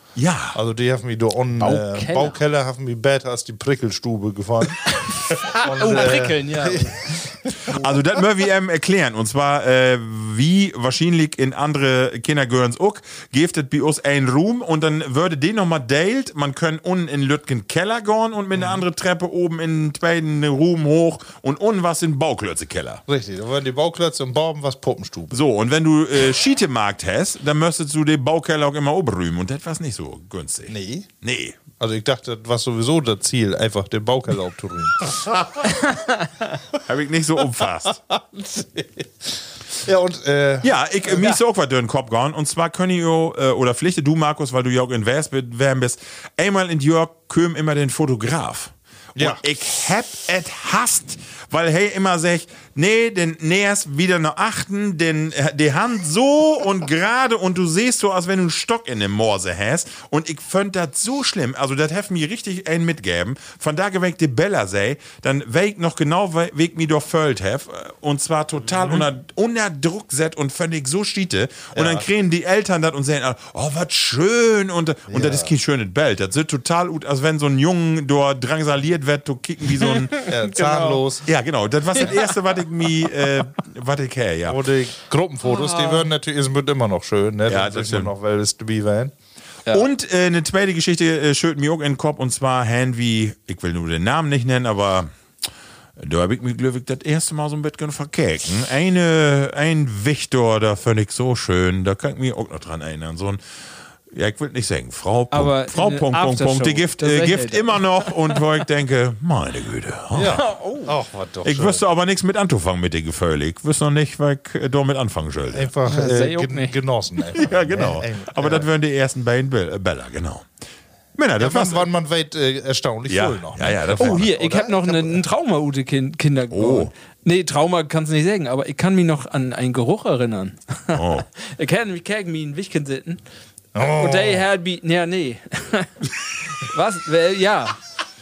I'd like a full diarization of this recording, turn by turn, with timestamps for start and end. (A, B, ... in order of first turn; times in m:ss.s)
0:00.2-0:00.6 A
0:00.5-0:07.5 B
0:01.6-0:02.4 C
0:04.9-0:07.8 C
0:07.7-0:23.0 A
0:18.5-0:18.8 B
0:23.1-0:25.4 B
0:25.3-0:31.6 A
0:30.7-0:31.1 B
0:31.8-0:35.4 B
0:35.9-0:36.2 C
0:36.7-0:38.0 A
0:38.1-0:41.4 B
0:40.6-1:20.3 A
0:49.2-0:49.4 B
1:11.7-1:12.1 B
1:15.1-1:15.5 B
1:19.8-1:21.0 C
1:20.2-1:21.3 B
1:21.2-1:24.6 A
1:24.4-1:29.1 B
1:25.4-1:26.1 C
1:27.5-1:28.1 A
1:29.7-1:35.1 A
1:36.0-1:43.4 A
1:44.1-1:50.4 A
1:45.3-1:48.4 C
1:50.1-1:51.8 B
1:50.2-1:50.9 C
1:51.4-1:55.7 A
1:55.5-1:58.7 B
1:55.8-1:56.8 C
1:57.3-2:00.5 A
2:01.2-2:01.9 A
2:01.4-2:05.2 B
2:03.1-2:04.3 A
2:04.0-2:13.2 C
2:06.5-2:06.9 A
2:10.9-2:11.2 A
2:13.7-2:14.4 B
2:13.8-2:17.8 C